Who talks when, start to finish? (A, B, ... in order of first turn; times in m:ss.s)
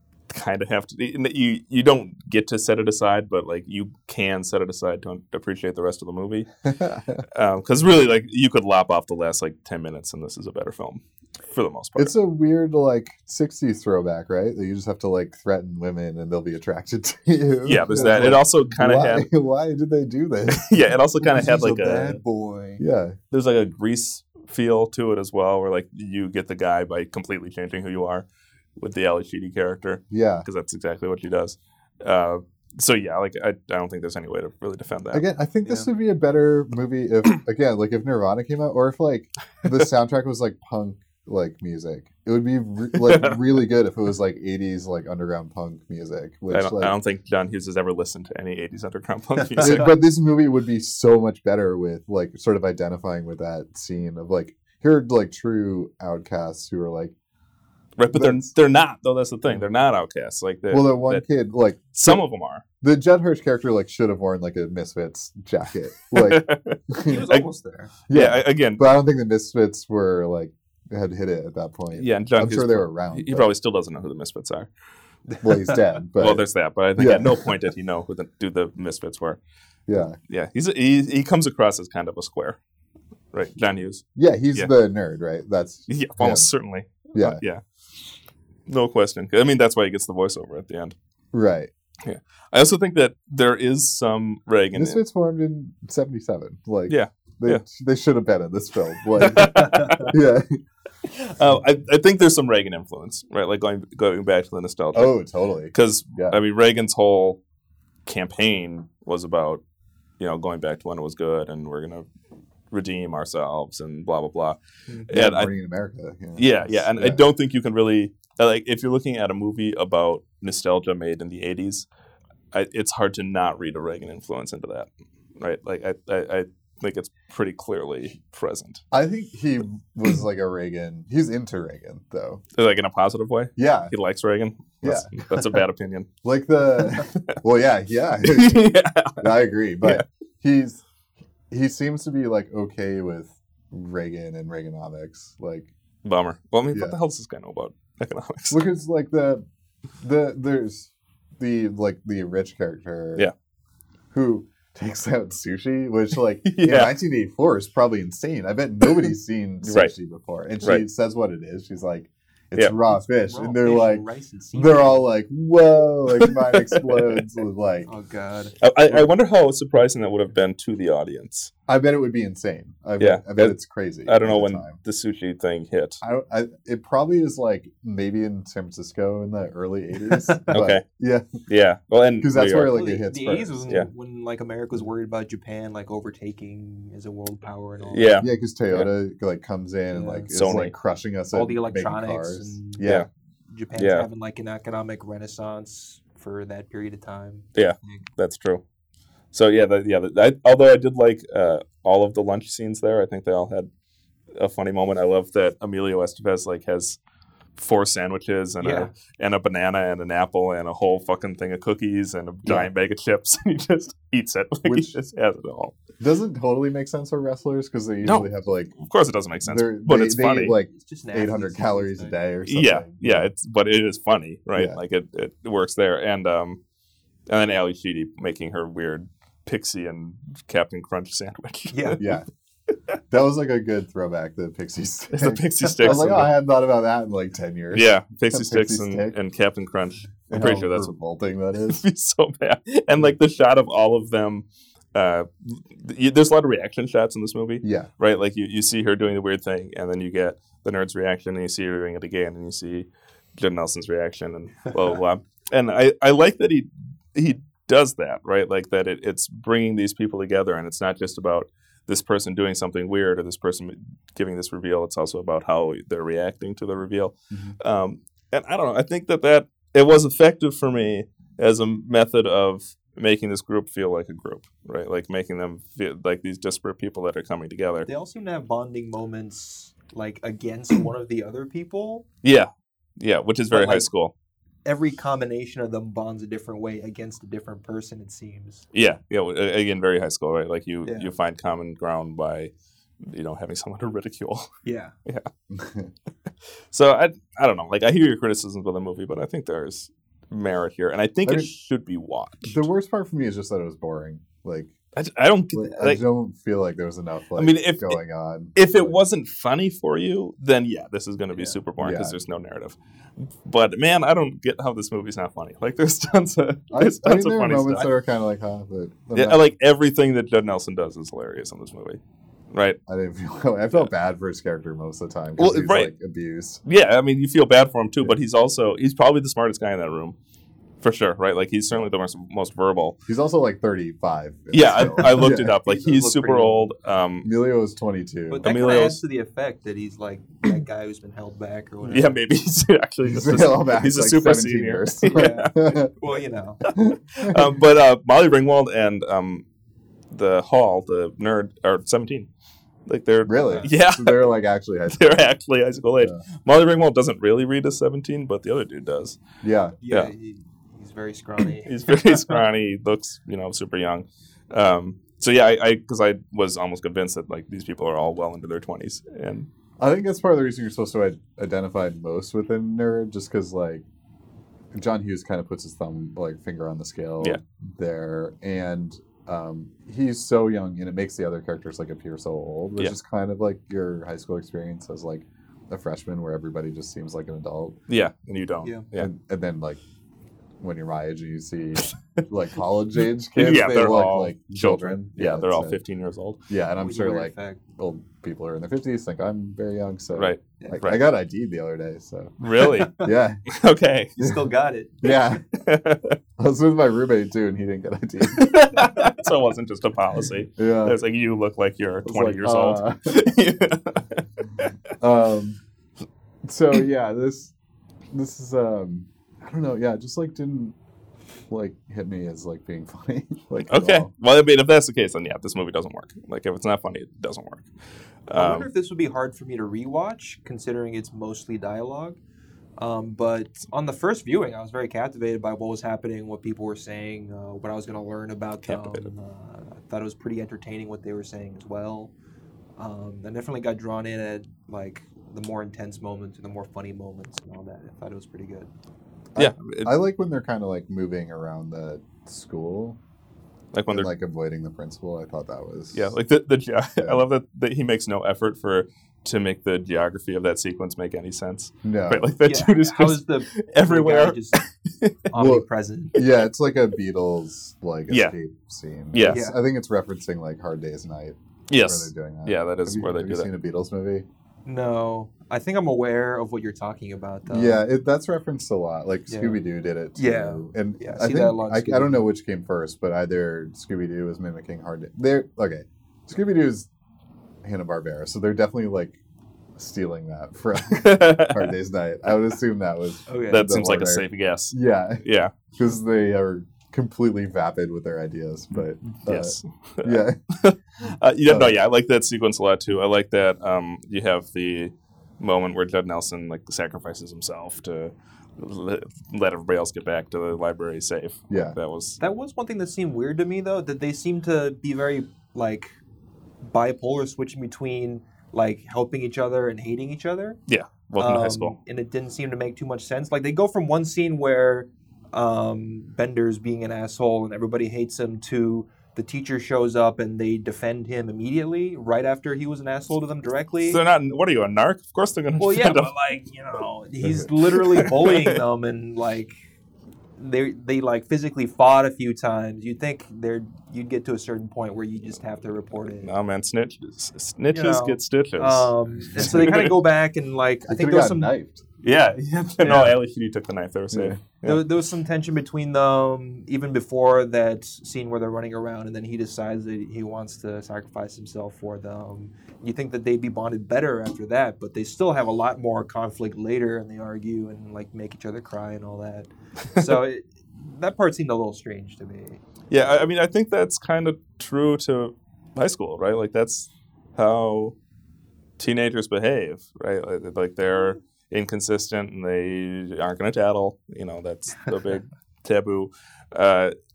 0:00.3-0:06.5 A
0:06.6-0:07.2 B
0:07.3-0:12.1 A
0:12.0-0:20.8 B
0:17.6-0:19.2 A
0:17.9-0:18.3 C
0:20.5-0:22.2 A
0:21.2-0:22.8 C
0:22.8-0:23.2 B
0:23.3-0:35.2 A
0:30.1-0:30.5 B
0:35.1-0:46.9 B
0:35.6-0:35.9 C
0:43.0-0:43.4 A
0:46.5-0:49.9 A
0:49.6-0:57.1 B
0:58.0-1:01.2 A
0:58.1-0:58.5 B
1:00.7-1:02.2 B
1:01.9-1:02.6 A
1:02.8-1:07.2 B
1:06.1-1:07.5 A
1:07.0-1:07.9 C
1:08.1-1:13.5 B
1:08.1-1:08.8 A
1:11.9-1:14.7 A
1:15.3-1:15.8 C
1:15.4-1:17.5 B
1:16.2-1:19.4 A
1:19.9-1:20.2 B
1:20.3-1:22.6 A
1:23.3-1:24.7 A
1:24.2-1:26.5 B
1:25.9-1:27.6 A
1:27.1-1:27.4 B
1:28.7-1:30.9 A
1:31.3-1:31.7 B
1:32.0-1:35.0 A
1:34.7-1:40.6 B
1:36.9-1:37.6 A
1:39.3-1:40.1 A
1:39.4-1:40.0 C
1:41.1-1:45.2 A
1:44.9-1:46.4 B
1:45.7-1:47.4 A
1:48.0-1:49.6 A
1:50.2-1:52.1 A
1:52.7-1:55.5 A
1:55.1-1:57.2 B
1:56.4-2:01.9 A
2:02.5-2:04.9 A
2:05.4-2:08.8 A
2:08.9-2:12.4 B
2:12.6-2:16.1 A
2:13.6-2:13.9 B
2:14.8-2:15.1 B
2:16.2-2:20.8 B
2:17.0-2:17.4 A
2:18.2-2:20.0 A
2:21.5-2:25.7 B
2:26.0-2:28.6 A
2:26.7-2:27.0 B
2:28.5-2:29.4 B
2:30.0-2:33.3 B
2:34.1-2:47.9 B
2:36.4-2:36.9 A
2:39.6-2:39.9 A
2:43.1-2:45.1 C
2:46.2-2:47.2 A
2:47.8-2:48.6 C
2:48.6-2:51.5 A
2:51.7-2:54.8 B
2:53.0-2:56.0 A
2:56.0-3:01.3 B
3:00.1-3:00.4 C
3:00.5-3:00.8 A
3:01.5-3:02.8 A
3:02.2-3:03.6 B
3:02.7-3:08.2 C
3:07.9-3:08.9 A
3:08.2-3:13.1 B
3:09.9-3:10.6 C
3:10.3-3:10.7 A
3:11.3-3:12.9 C
3:13.5-3:18.0 C
3:13.8-3:14.1 A
3:17.5-3:18.6 A
3:19.3-3:23.7 A
3:24.3-3:27.0 A
3:27.6-3:35.8 A
3:28.6-3:28.9 C
3:32.4-3:32.7 B
3:34.6-3:34.9 B
3:36.0-3:38.7 B
3:38.8-3:40.6 A
3:39.4-3:43.3 B
3:40.7-3:42.2 C
3:42.5-3:46.6 A
3:47.3-3:52.2 A
3:51.7-3:52.0 C
3:52.0-3:52.2 B
3:53.1-3:59.1 B
3:55.1-3:56.3 A
3:55.6-3:55.9 C
3:57.7-4:00.9 A
4:00.3-4:01.8 B
4:01.7-4:37.9 A
4:07.6-4:07.9 B
4:27.3-4:27.6 B
4:37.9-4:42.0 C
4:42.2-4:44.1 A
4:43.5-4:43.9 C
4:44.6-4:48.6 C
4:48.7-4:52.5 A
4:50.8-4:51.1 C
4:53.1-4:54.5 A
4:54.6-4:54.9 C
4:55.5-4:55.9 B
4:56.7-5:02.6 A
5:02.4-5:04.8 B
5:04.9-5:06.0 A
5:05.5-5:09.0 B
5:07.4-5:08.0 A
5:08.6-5:12.8 A
5:11.8-5:12.2 B
5:13.4-5:17.9 A
5:16.7-5:19.5 B
5:19.1-5:22.0 A
5:22.5-5:22.8 A
5:22.9-5:26.6 B
5:25.4-5:25.9 A
5:26.6-5:30.2 A
5:30.8-5:33.0 A
5:33.0-5:36.3 B
5:34.5-5:37.3 A
5:35.0-5:36.7 C
5:37.2-5:38.5 B
5:38.3-5:42.2 C
5:38.4-5:39.0 A
5:41.8-5:45.5 A
5:43.0-5:45.9 B
5:45.1-5:46.6 C
5:46.7-5:49.4 A
5:46.7-5:47.5 B
5:50.1-5:52.3 A
5:52.9-5:54.3 A
5:53.2-5:55.3 B
5:53.4-5:53.7 C
5:54.9-5:59.2 A
5:59.4-5:59.8 B
5:59.8-6:02.4 C
6:01.6-6:09.5 A
6:09.8-6:13.8 B
6:14.7-6:27.8 B
6:27.9-6:29.1 A
6:29.0-6:29.8 B
6:30.6-6:35.8 B
6:33.3-6:36.4 A
6:36.5-6:42.3 B
6:36.8-6:37.6 C
6:40.2-6:41.0 A
6:42.4-6:44.2 A
6:42.6-6:43.0 C
6:43.0-6:43.4 B
6:44.2-6:45.2 C
6:45.0-6:45.4 B
6:45.5-6:46.2 A
6:46.4-6:48.6 B
6:48.3-6:54.7 A
6:50.6-6:51.0 B
6:52.0-6:53.2 B
6:55.0-6:55.6 B
6:56.4-6:57.5 B
6:58.1-7:00.7 B
7:01.5-7:04.1 B
7:03.7-7:07.7 A
7:08.3-7:08.7 A
7:08.3-7:12.2 C
7:12.8-7:22.1 C
7:18.6-7:19.1 A
7:22.8-7:28.7 C
7:29.3-7:33.0 B
7:29.4-7:30.0 A
7:33.7-7:34.1 A
7:33.9-7:36.2 B
7:35.9-7:45.1 A
7:37.0-7:37.2 B
7:41.8-7:42.3 B
7:42.4-7:44.6 C
7:45.3-7:46.2 C
7:45.4-7:54.2 B
7:48.1-7:48.3 A
7:49.1-7:49.4 A
7:49.3-7:49.6 C
7:51.7-7:53.5 A
7:54.6-7:57.8 C
7:57.5-8:06.9 B
7:59.3-7:59.6 C
8:00.2-8:02.2 C
8:07.6-8:09.2 B
8:09.8-8:15.2 B
8:10.8-8:11.7 A
8:13.3-8:13.7 C
8:13.5-8:15.5 A
8:15.7-8:20.4 B
8:19.2-8:32.2 A
8:21.4-8:21.8 B
8:31.5-8:31.8 B
8:32.2-8:35.9 C
8:36.6-8:40.6 C
8:40.7-8:41.8 A
8:41.2-8:54.0 C
8:53.8-8:56.1 A
8:55.6-8:59.5 C
8:57.2-8:57.5 B
8:57.8-8:58.6 A
9:00.4-9:06.3 C
9:06.1-9:10.0 A
9:07.7-9:11.5 C
9:09.4-9:09.8 B
9:10.8-9:11.8 B
9:12.0-9:14.8 A
9:12.8-9:13.1 C
9:14.1-9:14.4 B
9:14.6-9:32.6 C
9:32.9-9:37.9 A
9:38.8-9:46.9 A